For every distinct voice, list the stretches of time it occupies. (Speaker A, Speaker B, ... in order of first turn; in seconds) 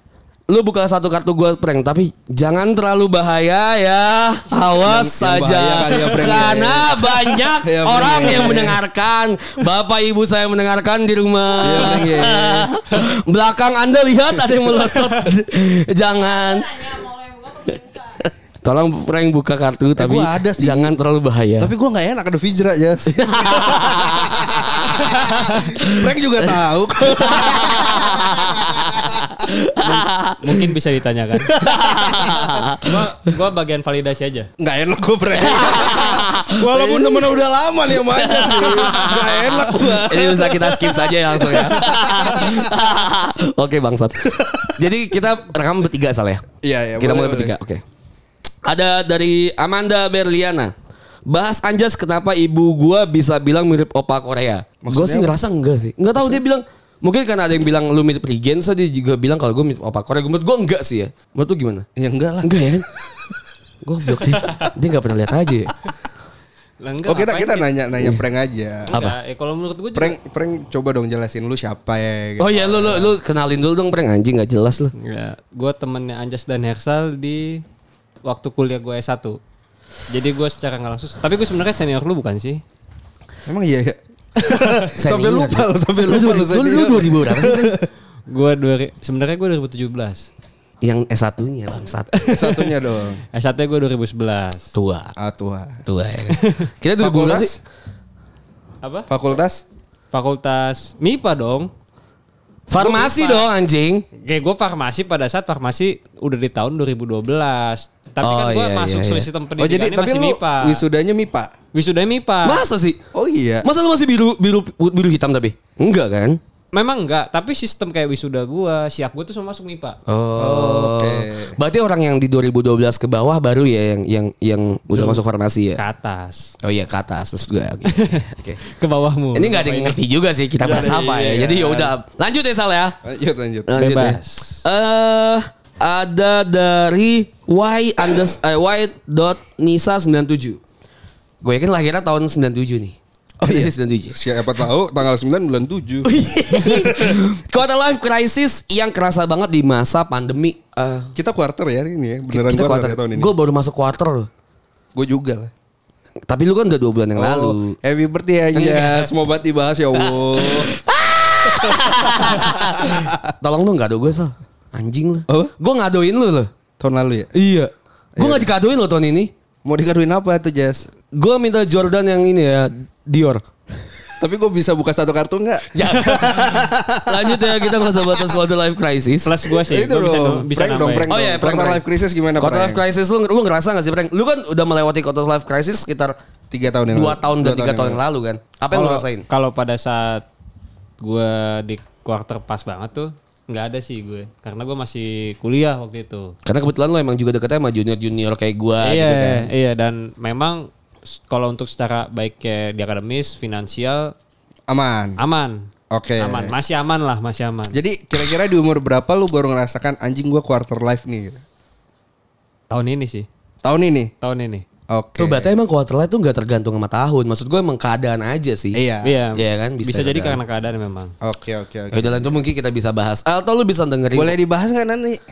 Speaker A: 0.5-21.7, 23.1-30.6, 31.6-32.9, 35.4-37.1, 37.9-46.5, 47.0-47.8, 48.6-50.7, 51.3-61.9, 62.4-62.9, 63.8-65.7, 68.9-69.2, 72.4-74.9, 84.9-87.7, 90.8-92.4, 94.7-95.1, 95.8-97.5, 102.7-104.1, 108.2-109.3, 112.4-113.0, 113.6-116.4, 120.1-125.8, 126.6-128.6, 129.3-133.0, 133.7-140.6, 141.4-144.2, 146.1-151.1, 152.3-154.3, 156.3-157.8, 158.5-159.1, 160.0-166.5, 167.3-169.3, 171.1-173.4, 175.7-179.3, 181.1-181.8, 182.4-186.2, 186.9-189.2, 196.4-199.5, 215.2-218.8, 219.4-220.4, 221.9-224.4
Speaker B: 4.8-8.8, 11.6-13.1, 20.0-21.0, 21.6-29.2, 31.5-32.5, 34.6-42.7, 46.6-47.5, 54.8-55.4, 62.0-62.7, 67.1-68.9, 69.9-73.2, 83.5-87.9, 92.3-93.2, 95.2-95.8, 97.0-97.6, 99.1-99.6, 109.6-111.5, 113.1-113.7, 120.4-121.6, 130.6-131.9, 133.0-133.7, 143.4-147.2, 151.2-153.3, 154.9-155.5, 157.2-160.7, 161.5-163.2, 166.8-167.3, 168.2-168.5, 169.7-170.9, 174.2-177.5, 179.6-182.8, 186.5-188.0, 188.7-189.1, 204.7-205.2, 205.9-206.5, 207.7-211.4, 213.6-214.1, 214.9-215.5, 218.7-219.2, 221.2-222.4, 224.1-225.2
Speaker C: 25.3-25.7, 30.4-31.5, 32.2-34.5, 36.7-37.3, 66.8-67.8, 68.9-70.2, 75.0-77.6, 78.2-79.4, 80.1-82.6, 88.3-90.3, 92.2-92.8, 93.3-94.7, 96.3-96.6, 98.8-99.1, 100.1-101.7, 102.8-103.5, 104.2-110.8, 111.7-112.6, 116.7-120.0, 124.9-125.2, 125.8-126.5, 128.0-130.0, 133.8-134.6, 179.2-181.1, 189.3-190.3, 191.0-196.4, 198.8-204.1, 205.2-205.7, 206.2-207.8, 212.7-213.3, 214.2-214.7, 219.0-221.1